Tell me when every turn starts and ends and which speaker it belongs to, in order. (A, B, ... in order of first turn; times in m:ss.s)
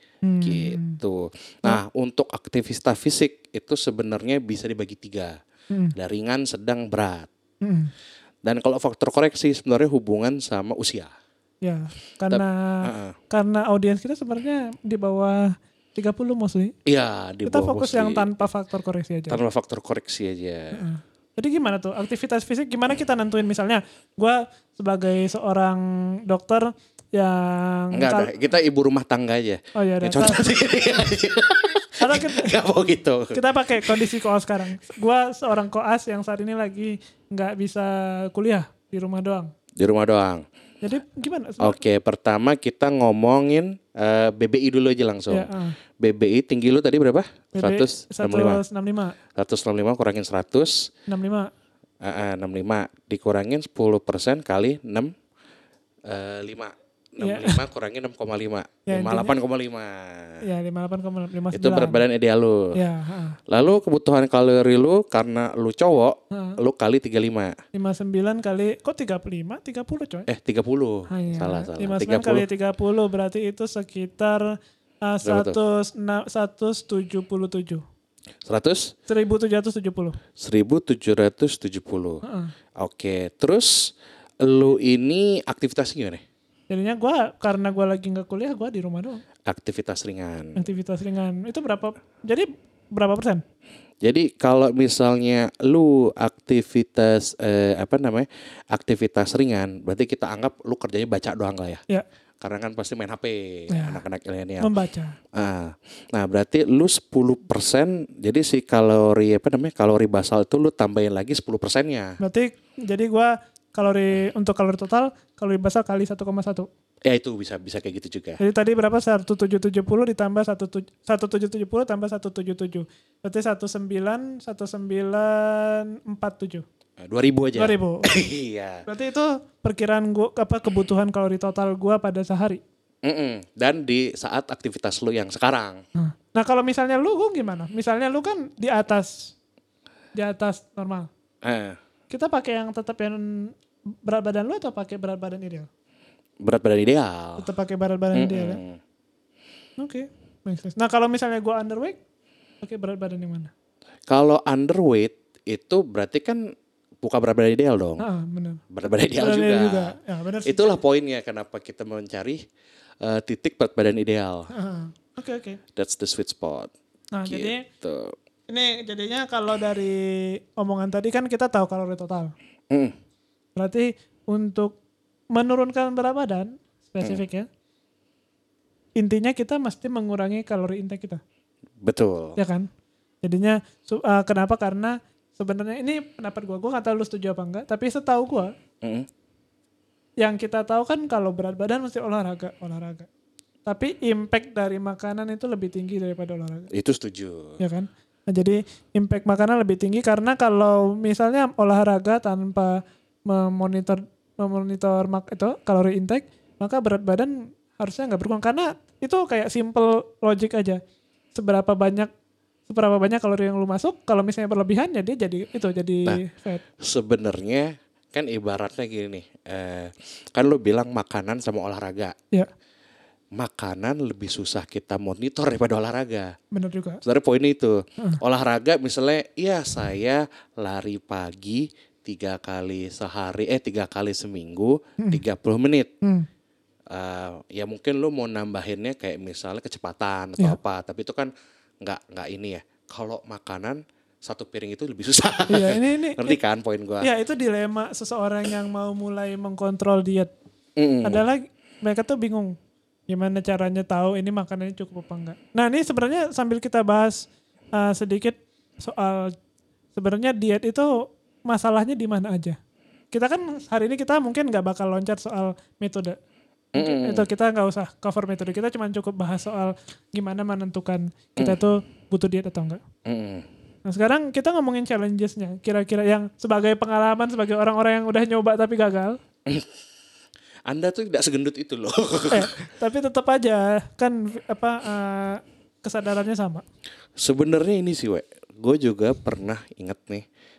0:00.2-0:01.0 A
0:00.4-0:05.4 B
0:06.0-0:07.3 B
0:07.6-0:07.9 A
0:08.4-0:11.1 B
0:11.6-0:16.8 A
0:12.3-0:13.2 B
0:16.9-0:18.4 B
0:17.5-0:19.4 A
0:19.3-0:20.9 B
0:20.7-0:28.3 A
0:27.9-0:34.0 B
0:29.8-0:30.4 A
0:32.0-0:32.5 A
0:33.3-0:39.5 A
0:39.8-0:40.4 B
0:40.8-0:41.8 A
0:41.6-0:48.6 B
0:45.3-0:45.8 A
0:47.6-0:49.2 A
0:49.4-0:50.9 B
0:51.1-0:51.5 A
0:52.0-0:55.1 B
0:56.1-1:00.4 B
0:57.2-0:57.6 A
0:58.9-0:59.4 A
1:00.4-1:02.0 A
1:01.5-1:02.8 B
1:02.8-1:03.4 A
1:03.5-1:07.6 B
1:06.3-1:06.6 A
1:07.7-1:10.3 A
1:10.3-1:12.5 B
1:11.1-1:14.5 A
1:15.0-1:17.8 A
1:15.2-1:15.6 B
1:18.4-1:18.9 B
1:19.1-1:20.2 A
1:20.4-1:22.2 B
1:22.2-1:22.5 A
1:22.8-1:26.2 B
1:26.7-1:29.2 A
1:29.4-1:30.6 B
1:30.6-1:33.4 A
1:34.0-1:41.8 B
1:42.4-1:44.7 B
1:43.7-1:44.0 A
1:44.6-1:45.2 A
1:45.3-1:52.2 B
1:52.2-1:56.7 A
1:57.1-1:58.4 B
1:58.4-2:06.6 A
2:07.0-2:08.8 B
2:07.6-2:08.1 A
2:08.9-2:12.6 A
2:13.0-2:15.8 B
2:16.0-2:19.4 A
2:20.2-2:21.1 A
2:21.4-2:21.8 B
2:22.1-2:23.5 A
2:24.0-2:25.7 A
2:26.4-2:27.5 B
2:27.4-2:28.6 A
2:28.1-2:28.8 B
2:29.8-2:32.0 A
2:32.6-2:33.5 A
2:34.1-2:36.4 B
2:37.0-2:38.0 B
2:38.0-2:38.6 A
2:38.7-2:42.4 B
2:39.2-2:40.7 A
2:43.0-2:44.5 B
2:44.5-2:45.6 A
2:45.8-2:46.7 B
2:47.1-2:47.7 A
2:47.3-2:48.2 B
2:48.5-2:52.3 A
2:53.6-2:54.8 A
2:55.3-2:57.5 A
2:59.0-3:01.2 A
3:01.8-3:02.4 B
3:02.4-3:02.7 A
3:03.2-3:08.5 A
3:08.8-3:09.1 B
3:10.2-3:13.1 A
3:13.7-3:16.7 A
3:16.7-3:17.6 B
3:17.6-3:30.8 A
3:31.4-3:32.1 A
3:32.7-3:36.6 A
3:36.8-3:42.2 B
3:43.4-3:46.4 B
3:46.5-3:47.0 A
3:47.0-3:55.9 B
3:56.0-3:56.3 A
3:56.9-4:01.3 B
4:01.8-4:07.1 B
4:05.5-4:06.4 A
4:07.0-4:10.3 A
4:10.8-4:11.2 B
4:11.0-4:12.6 A
4:13.1-4:19.3 A
4:20.0-4:22.6 A
4:23.1-4:26.2 A
4:26.8-4:32.8 A
4:26.8-4:27.3 B
4:33.0-4:33.5 B
4:33.9-4:39.2 A
4:40.7-4:42.5 B
4:42.3-4:46.6 A
4:47.2-4:50.2 B